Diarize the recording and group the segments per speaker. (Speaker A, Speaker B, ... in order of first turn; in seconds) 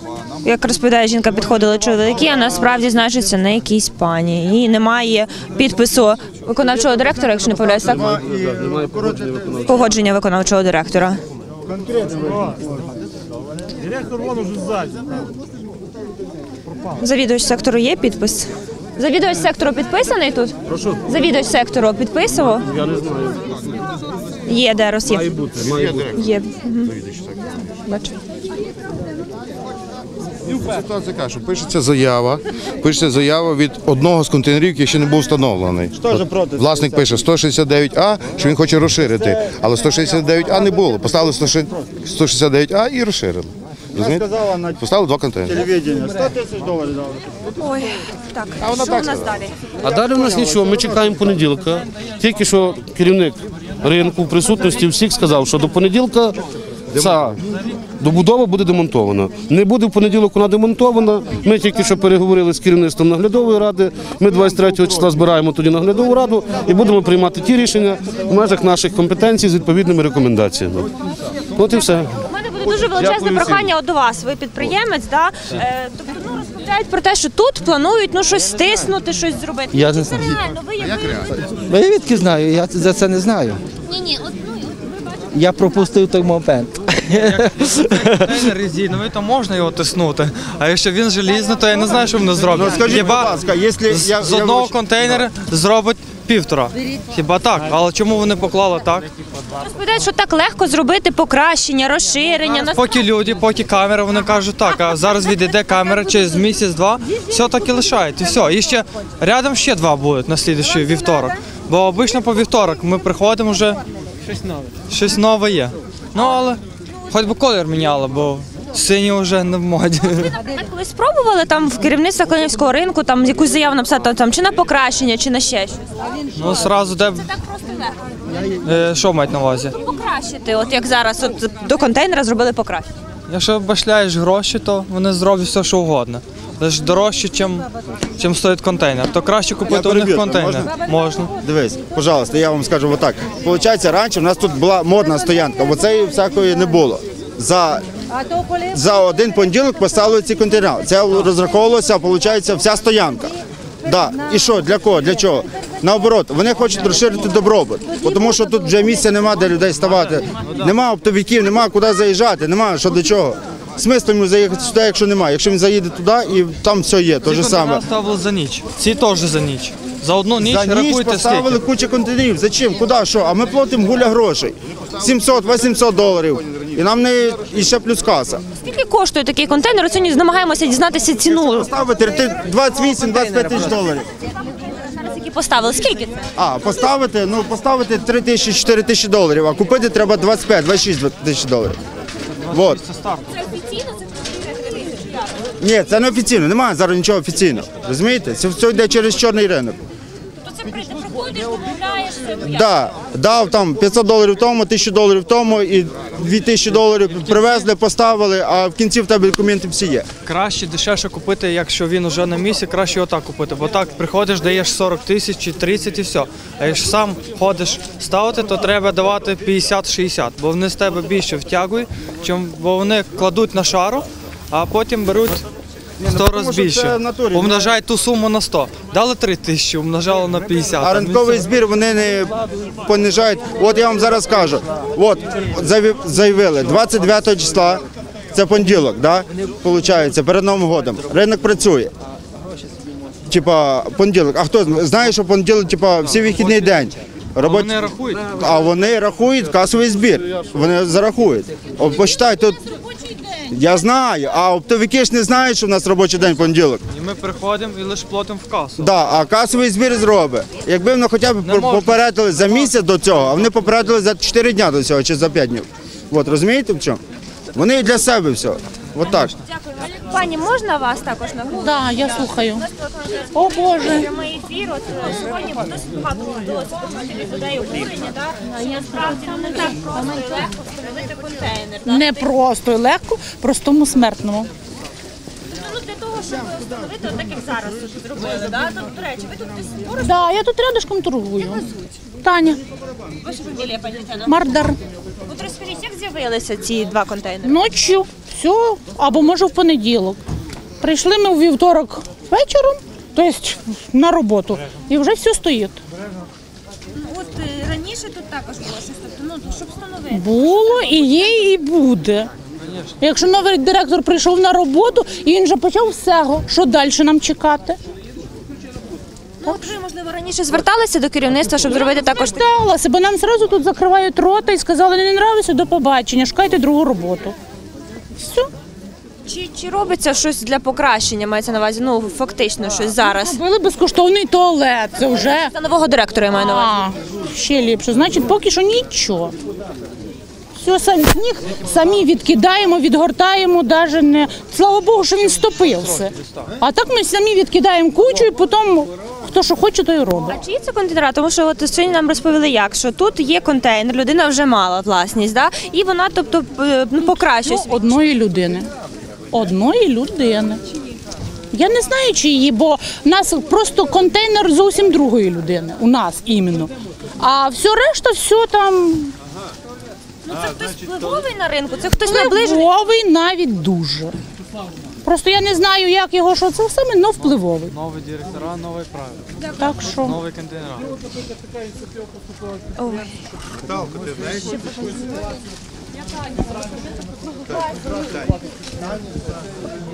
Speaker A: 0.4-8.1, 9.6-11.2, 17.0-20.6, 21.1-22.7, 24.5-25.4, 26.1-26.9, 27.9-28.1, 47.5-49.5, 72.3-81.4, 83.9-84.5, 99.6-103.1, 116.2-116.4, 120.0-128.0, 129.8-132.9, 178.6-181.7, 184.8-186.2, 193.3-195.3, 200.4-202.7, 269.4-282.3, 285.5-290.3, 293.2-294.4, 295.3-297.6, 307.0-311.5, 319.4-322.4, 329.3-333.4, 335.2-336.9, 350.3-357.9, 370.3-372.7, 382.8-383.1, 384.2-385.0
Speaker B: 7.6-9.9, 11.7-12.9, 35.9-37.3, 44.0-44.8, 45.5-47.3, 49.8-50.8, 92.5-95.2, 139.7-140.7, 141.4-147.8, 148.7-167.8, 170.4-178.4, 181.3-184.1, 186.4-191.8, 192.5-192.8, 195.6-199.8, 202.4-210.1, 226.0-227.7, 230.8-241.9, 243.3-247.8, 248.3-252.6, 253.5-256.8, 258.8-267.0, 267.5-269.3
Speaker C: 7.9-9.7, 22.8-23.1, 49.8-56.4, 56.9-57.4, 58.0-70.9, 71.5-72.1, 72.9-73.7
Speaker D: 25.4-26.2, 26.9-27.4, 30.5-44.3, 44.8-45.7, 48.6-49.3, 56.9-57.3, 80.8-81.2
Speaker E: 79.7-80.3, 81.7-83.6, 85.3-88.4
Speaker F: 87.2-93.3, 93.9-99.1, 102.5-113.8, 114.9-120.3, 126.3-127.3, 128.6-129.8, 133.3-137.7, 138.2-141.3, 167.2-171.6, 192.5-193.3, 210.2-225.4, 226.1-231.4, 247.4-248.3, 256.9-258.9, 261.4-262.1, 312.6-312.9, 377.3-379.3, 380.0-380.9
Speaker G: 271.6-272.6, 273.4-274.1, 281.9-284.5, 290.0-291.7, 292.2-292.6, 294.3-294.8, 297.4-300.2, 300.8-305.8, 310.1-312.3, 313.0-317.8, 321.7-327.4, 328.2-328.5, 333.0-335.5, 336.4-339.4, 340.6-350.4, 357.0-358.7, 359.3-360.6, 361.5-369.1, 372.1-374.1, 375.1-377.7, 379.6-380.2